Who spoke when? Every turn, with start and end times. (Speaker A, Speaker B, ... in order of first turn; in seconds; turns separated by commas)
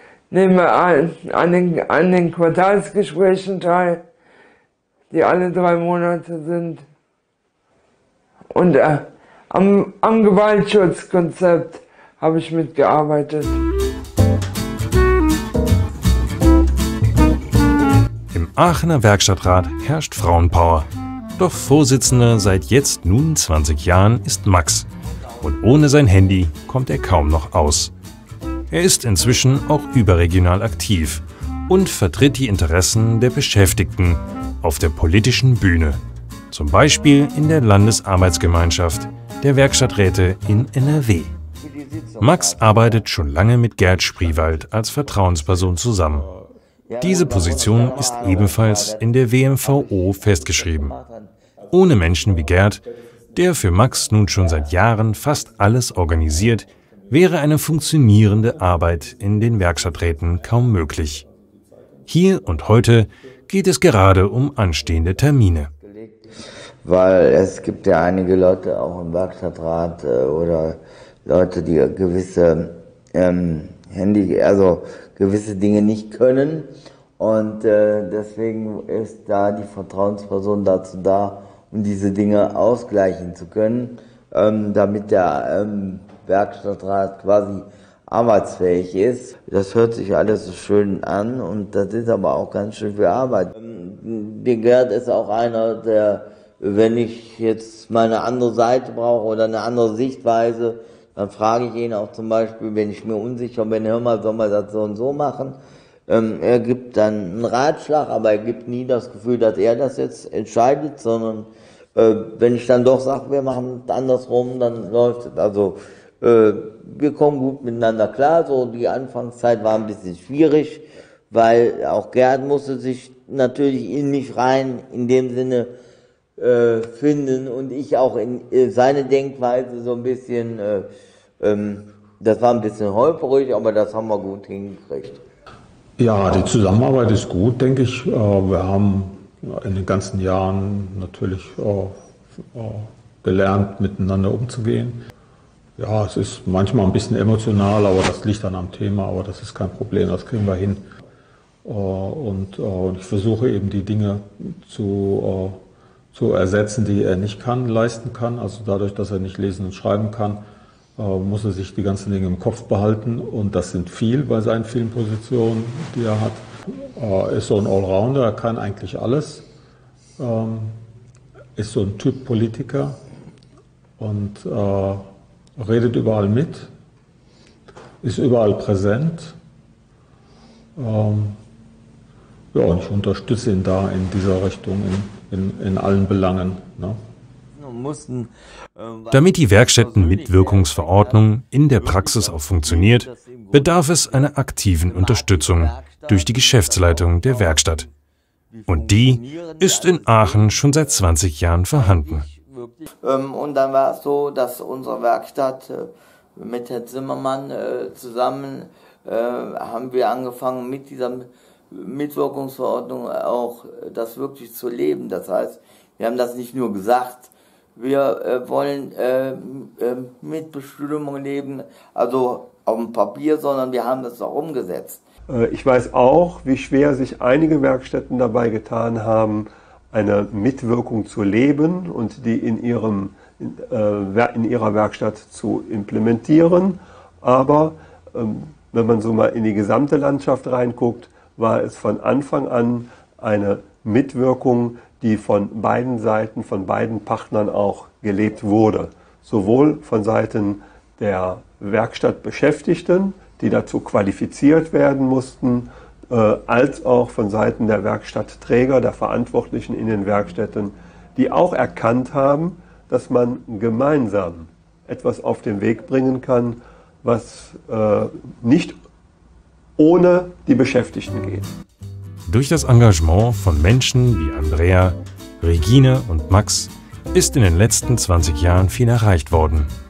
Speaker A: 0.3-4.0, Speaker A: 5.1-6.8, Speaker A: 8.5-13.6, Speaker B: 18.3-24.9, Speaker B: 25.4-27.9, Speaker B: 28.7-41.3, Speaker C: 41.6-43.1, Speaker B: 42.2-46.3, Speaker D: 43.9-46.5, Speaker C: 46.9-51.4, Speaker B: 47.0-51.0, Speaker B: 51.7-61.2, Speaker C: 54.4-54.6, Speaker B: 62.1-65.7, Speaker C: 65.8-66.3, Speaker C: 66.8-125.7, Speaker C: 126.4-130.9, Speaker C: 131.4-135.2, Speaker D: 136.0-141.9, Speaker D: 142.6-145.0, Speaker D: 145.8-150.8, Speaker D: 151.7-155.6, Speaker D: 156.1-160.4, Speaker D: 161.0-169.5, Speaker D: 170.2-170.8, Speaker D: 171.6-173.0, Speaker D: 174.0-175.0, Speaker D: 175.6-176.7, Speaker D: 178.0-179.3, Speaker D: 180.8-181.4, Speaker D: 182.5-187.0, Speaker C: 187.6-194.3, Speaker B: 189.1-197.9, Speaker C: 194.8-197.9, Speaker C: 198.5-201.2, Speaker B: 198.7-202.3, Speaker C: 201.7-225.0, Speaker E: 225.3-268.8, Speaker E: 269.8-271.5, Speaker B: 272.3-279.7